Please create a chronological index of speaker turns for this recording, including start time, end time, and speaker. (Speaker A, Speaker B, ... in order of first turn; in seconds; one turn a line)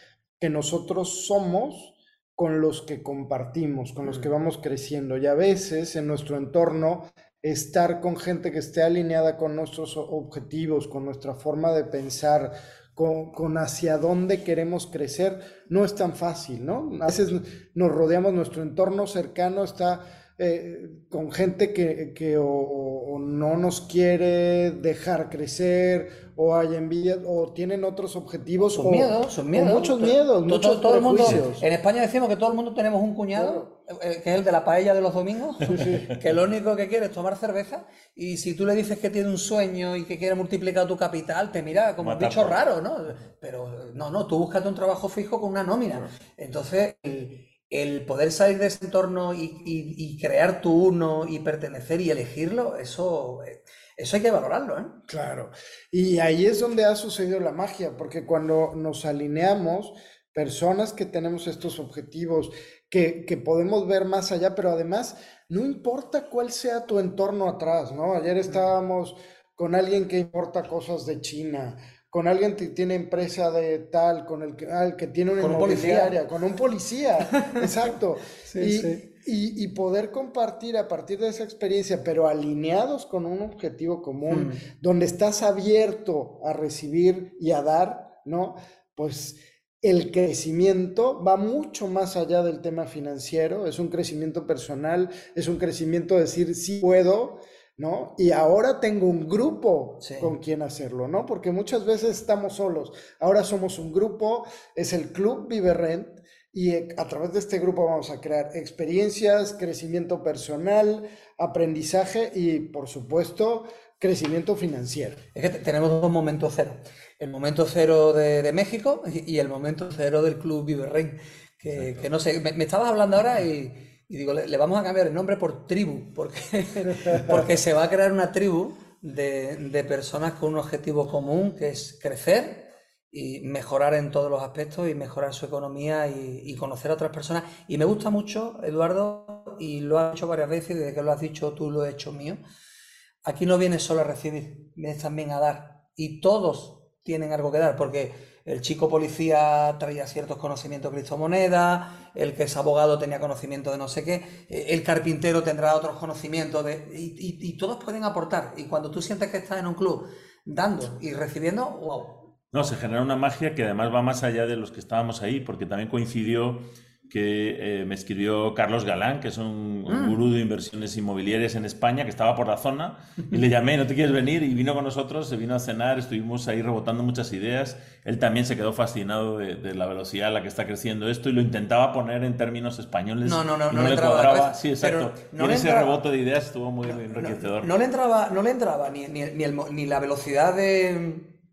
Speaker A: 0.4-31.6
Speaker B: 28.7-55.0
Speaker A: 33.3-33.7
Speaker A: 35.7-36.1
Speaker C: 42.0-42.6
Speaker A: 55.1-115.2
Speaker B: 75.4-76.2
Speaker B: 78.4-79.0
Speaker B: 84.3-84.6
Speaker B: 100.0-100.3
Speaker B: 115.3-142.4
Speaker B: 143.2-162.4
Speaker C: 162.5-187.7
Speaker B: 169.9-170.2
Speaker B: 183.2-186.0
Speaker B: 186.8-191.4